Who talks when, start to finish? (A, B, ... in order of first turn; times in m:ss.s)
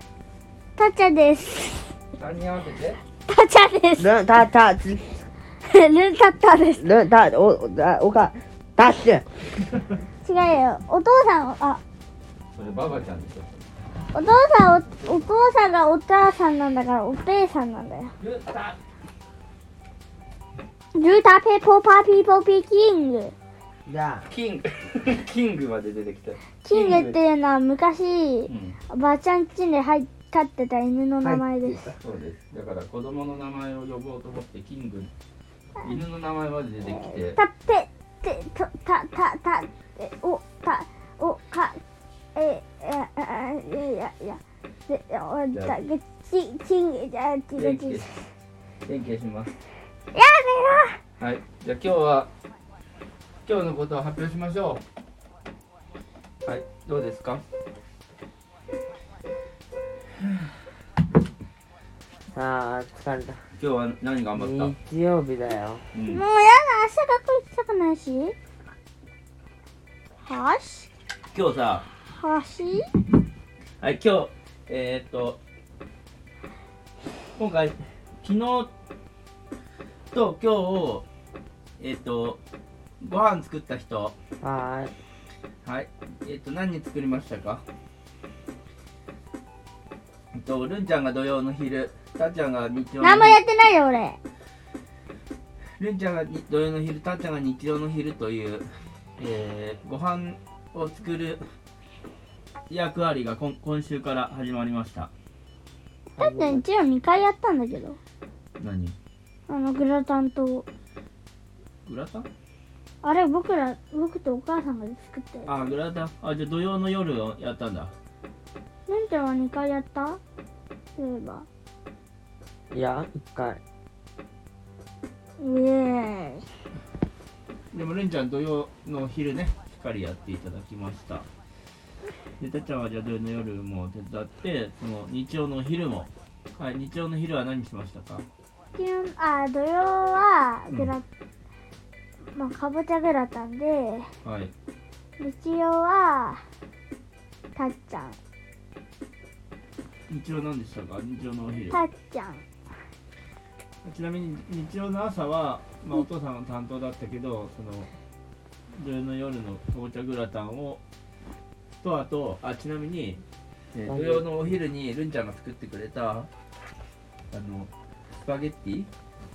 0:00.8-0:01.9 A
0:02.2-0:03.0 B
0:03.3-0:04.1 A
0:04.0-0:05.2 C
0:05.6-0:06.9 A
0:06.8-0:09.2 C
0:09.7-0:10.0 B
0:10.2-0:11.8 A
0:12.6-0:13.6 B
0:14.1-0:18.2 A
0:18.2-0:18.8 B
0:20.9-0:23.4 A
0:23.9-0:24.3 C
0:24.3-0:27.2 B
0:26.6-0:31.8 A
0:28.5-0:28.8 B
0:31.2-0:32.0 C
0:32.0-0:35.1 B
0:35.8-0:37.4 B
0:37.0-0:41.8 A
0:42.4-0:48.1 A
0:47.6-0:48.1 B
0:48.9-0:49.6 B
0:50.1-0:51.0 A
0:51.2-0:52.3 B
0:53.4-0:54.8 B
0:56.4-0:57.4 B
1:02.3-1:03.5 C
1:03.6-1:04.7 B
1:04.3-1:05.8 C
1:05.9-1:06.2 B
1:06.1-1:08.4 A
1:10.2-1:10.9 A
1:11.3-1:11.9 B
1:12.1-1:12.9 A
1:13.8-1:15.4 B
1:17.4-1:18.7 B
1:20.1-1:21.1 B
1:21.8-1:22.4 B
1:23.0-1:24.2 B
1:24.4-1:24.9 C
1:25.6-1:27.6 B
1:30.3-1:33.4 B
1:33.0-1:34.2 A
1:35.8-1:41.5 B
1:42.7-1:45.1 B
1:46.2-1:46.6 C
1:46.2-1:48.0 A
1:48.6-1:49.0 B
1:49.5-1:50.7 A
1:51.9-1:52.3 B
1:53.0-1:55.6 A
1:55.5-1:57.9 B
1:58.9-2:00.2 A
2:01.0-2:01.5 A
2:02.7-2:03.6 C
2:05.4-2:06.5 A
2:07.7-2:11.3 B
2:12.4-2:18.3 B
2:18.8-2:21.0 A
2:22.4-2:24.1 A
2:24.2-2:24.5 B
2:25.2-2:26.4 A
2:27.6-2:28.2 A
2:30.1-2:31.8 B
2:31.7-2:32.4 A
2:33.8-2:37.9 B
2:38.7-2:40.8 B
2:41.8-2:43.2 B
2:43.7-2:46.3 B
2:43.9-2:44.2 C
2:47.3-2:47.7 B
2:48.2-2:48.9 B